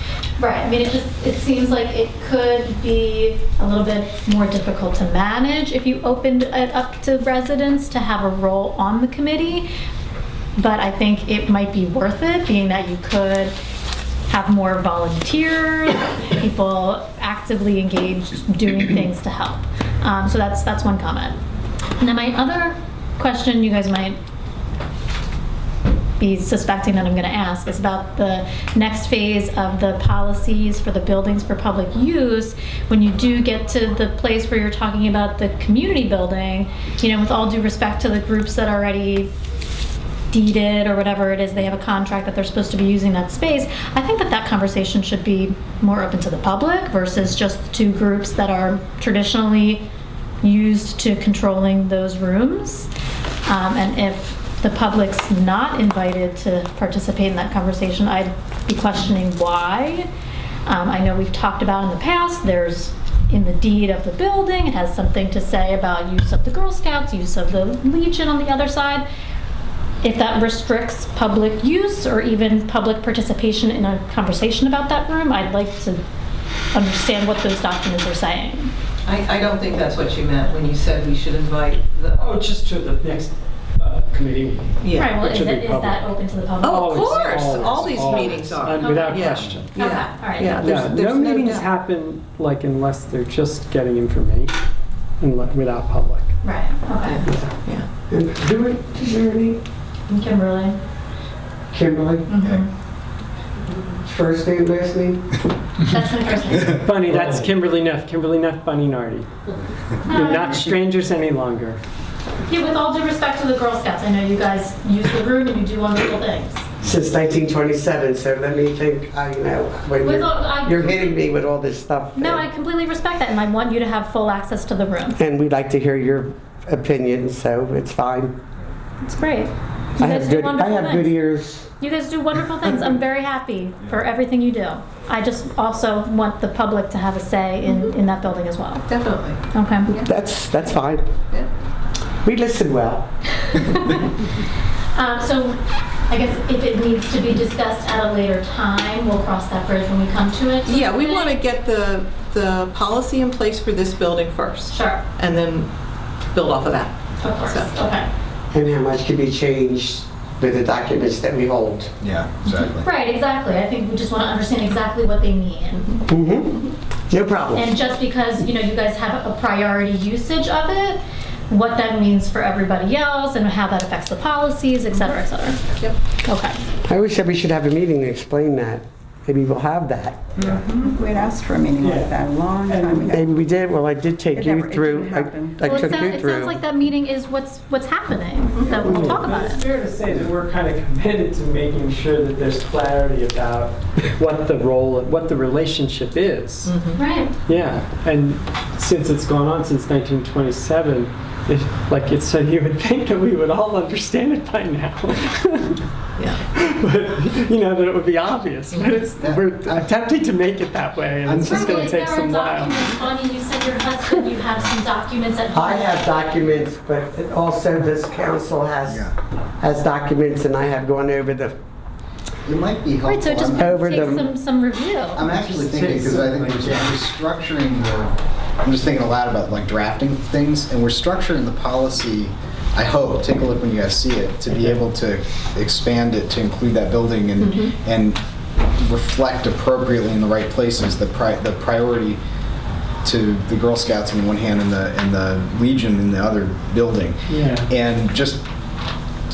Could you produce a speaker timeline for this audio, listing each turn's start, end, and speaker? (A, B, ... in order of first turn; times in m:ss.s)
0:00.4-0:09.7 A
0:10.6-0:13.5 A
0:14.3-0:21.4 A
0:22.0-0:24.2 A
0:26.2-0:39.3 A
0:40.3-0:49.9 A
0:50.4-0:52.9 A
0:53.4-1:00.1 A
1:00.6-1:09.0 A
1:10.0-1:16.0 A
1:16.7-1:18.7 A
1:19.0-1:22.4 B
1:22.2-1:26.1 C
1:24.8-1:25.1 B
1:24.9-1:27.5 A
1:26.6-1:29.8 C
1:26.6-1:31.7 B
1:28.8-1:30.6 A
1:30.5-1:34.5 C
1:35.2-1:36.3 C
1:36.4-1:37.2 A
1:37.1-1:37.8 B
1:38.1-1:39.6 D
1:40.1-1:40.8 A
1:41.7-1:42.3 D
1:42.3-1:42.7 A
1:44.0-1:45.4 D
1:45.9-1:46.9 A
1:46.8-1:49.3 C
1:50.0-1:51.8 C
1:50.0-1:50.7 A
1:52.4-1:56.6 A
1:56.8-2:02.4 D
2:00.0-2:01.2 A
2:02.2-2:05.2 A
2:05.2-2:08.4 D
2:09.0-2:11.1 A
2:10.0-2:11.7 D
2:11.8-2:18.9 A
2:18.9-2:20.1 B
2:19.5-2:19.9 A
2:20.0-2:21.1 D
2:22.2-2:23.1 D
2:23.4-2:24.0 A
2:24.9-2:31.4 A
2:30.6-2:35.7 B
2:34.7-2:35.0 A
2:36.3-2:37.7 B
2:37.2-2:38.1 A
2:38.5-2:41.9 D
2:42.0-2:42.9 E
2:42.5-2:46.0 A
2:46.1-2:46.6 D
2:47.1-2:47.7 D
2:47.5-2:55.6 A
2:56.2-2:56.6 A
2:56.8-3:00.3 D
3:00.4-3:03.3 F
3:01.8-3:03.2 C
3:03.1-3:06.6 D
3:04.3-3:05.8 F
3:05.6-3:09.6 A
3:08.6-3:09.0 B
3:08.8-3:16.7 C
3:08.8-3:09.2 D
3:16.6-3:17.0 B
3:17.0-3:17.3 A
3:17.4-3:25.8 C
3:26.2-3:26.4 B
3:26.5-3:32.9 C
3:28.7-3:29.0 B
3:29.2-3:29.9 E
3:31.2-3:31.9 E
3:31.4-3:36.0 A
3:35.5-3:39.0 D
3:38.9-3:39.1 E
3:39.6-3:41.5 D
3:42.4-3:44.2 E
3:43.0-3:45.2 A
3:43.6-3:44.3 D
3:45.2-3:58.2 E
3:45.3-3:47.0 C
3:57.4-3:57.7 B
3:58.8-4:02.2 E
4:03.0-4:08.4 E
4:07.3-4:07.7 C